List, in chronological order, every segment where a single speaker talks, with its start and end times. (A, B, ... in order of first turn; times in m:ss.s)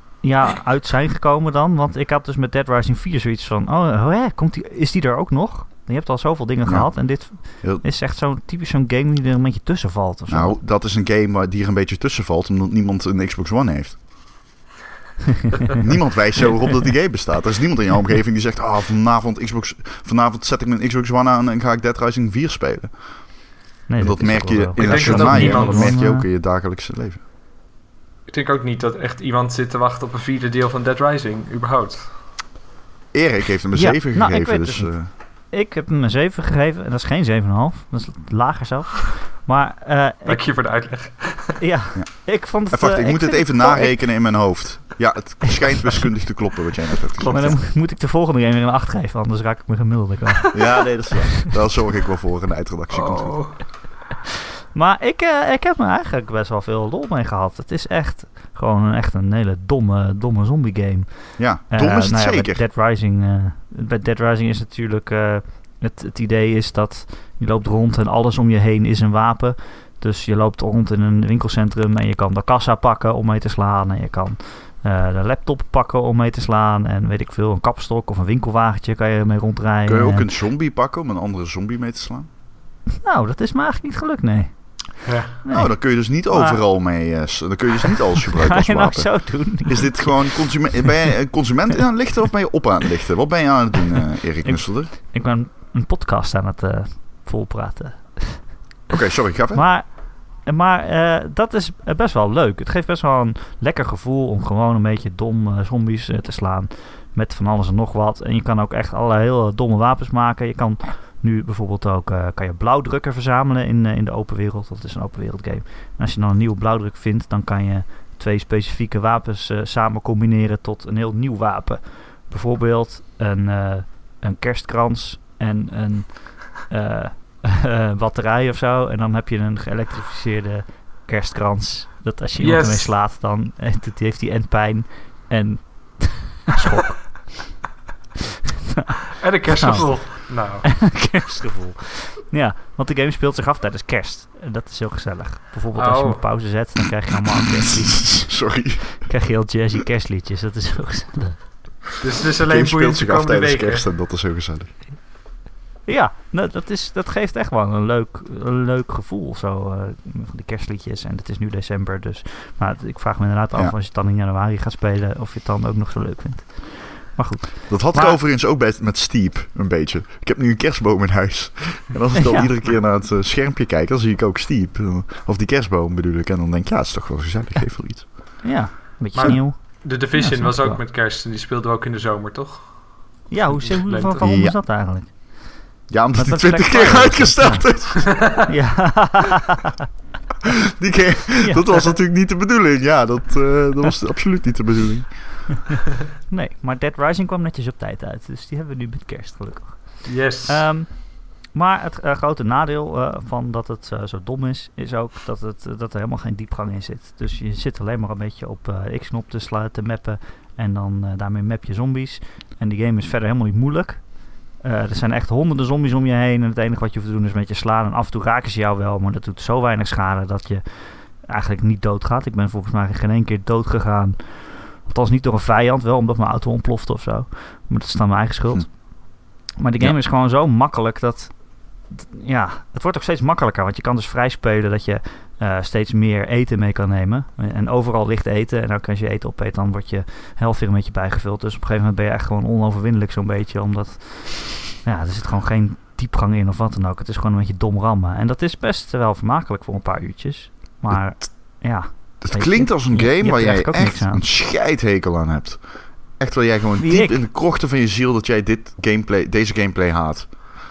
0:00.2-0:10.6 A
0:06.6-0:07.8 B
0:10.3-0:14.0 B
0:15.8-0:23.0 B
0:23.9-0:26.2 A
0:24.0-0:27.2 B
0:24.8-0:26.0 C
0:28.3-0:32.2 C
0:33.1-0:35.1 B
0:33.7-0:40.6 A
0:40.2-0:41.6 C
0:41.6-0:44.6 A
0:41.9-0:47.6 B
0:47.2-0:47.6 C
0:47.3-0:51.0 A
0:50.5-0:53.5 B
0:52.9-0:53.7 C
0:54.7-1:20.3 A
1:01.4-1:02.6 B
1:19.8-1:22.3 B
1:23.0-1:26.6 A
1:25.0-1:25.4 C
1:25.5-1:34.9 B
1:28.3-1:30.4 A
1:34.4-1:38.5 A
1:38.9-1:39.6 B
1:39.5-2:17.6 A
2:12.4-2:12.9 C
2:18.8-2:31.8 A
2:19.2-2:20.8 C
2:25.7-2:26.4 C
2:27.9-2:29.1 B
2:32.0-2:33.8 C
2:32.5-2:34.7 B
2:35.8-2:48.2 A
2:47.7-2:58.4 B
2:52.2-2:52.5 A
2:58.4-3:00.8 A
2:59.1-3:04.4 C
3:03.3-3:09.7 A
3:04.2-3:04.6 B
3:05.9-3:08.3 B
3:10.8-3:15.5 B
3:11.4-3:11.9 A
3:16.3-4:14.2 A
3:20.0-3:20.7 C
4:12.2-4:20.5 B
4:16.8-4:17.2 A